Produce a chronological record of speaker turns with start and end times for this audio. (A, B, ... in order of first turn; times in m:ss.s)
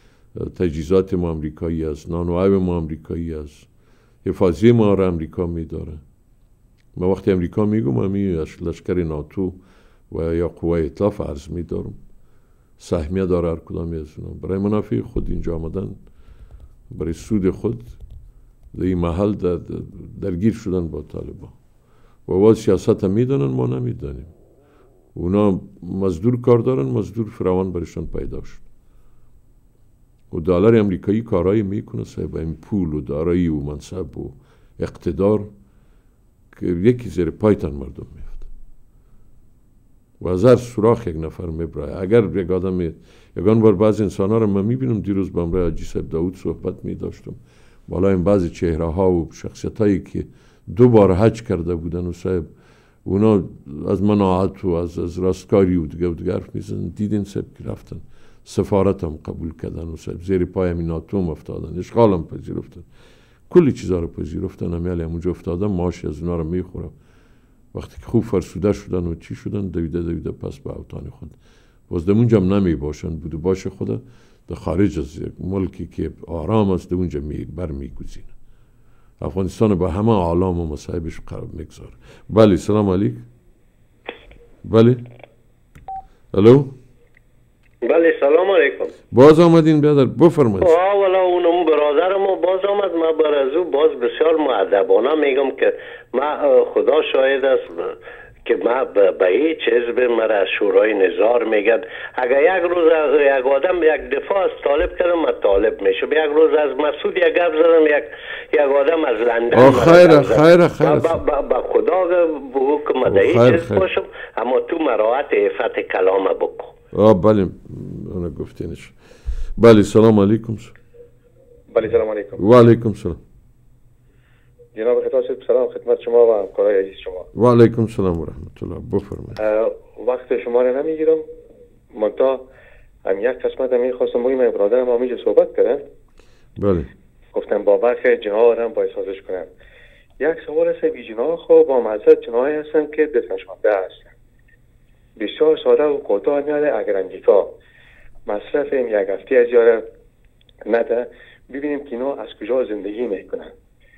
0:00.4-0:03.7 A
0:04.2-0:06.0 A
0:07.0-0:09.6 A
0:10.1-0:12.0 A
0:12.8-0:16.0 A
0:16.9-0:18.0 A
0:18.7-0:21.6 A
0:22.3-0:24.3 A
0:25.2-0:28.6 A
0:30.3-0:35.5 A
0:36.5-0:38.5 A
0:40.2-0:52.5 A
0:53.0-1:02.9 A
1:03.5-1:06.9 A
1:07.7-1:11.4 A
1:11.9-1:18.3 A
1:19.2-1:23.2 A
1:24.6-1:25.0 A
1:26.3-1:26.7 A
1:27.8-1:28.9 B
1:29.1-1:30.7 A
1:30.6-1:37.9 B
1:38.5-1:56.7 B
1:49.5-1:51.2 A
1:53.0-1:53.9 A
1:56.9-1:59.0 A
1:59.6-2:00.7 A
2:01.7-2:02.4 C
2:02.4-2:03.2 A
2:04.8-2:07.3 C
2:07.4-2:09.4 A
2:09.4-2:11.3 C
2:11.9-2:12.4 C
2:13.0-2:15.8 C
2:16.6-2:16.9 A
2:17.3-2:19.5 C
2:20.2-2:24.1 C
2:25.2-2:27.5 C
2:28.3-2:29.8 C
2:30.7-2:33.5 C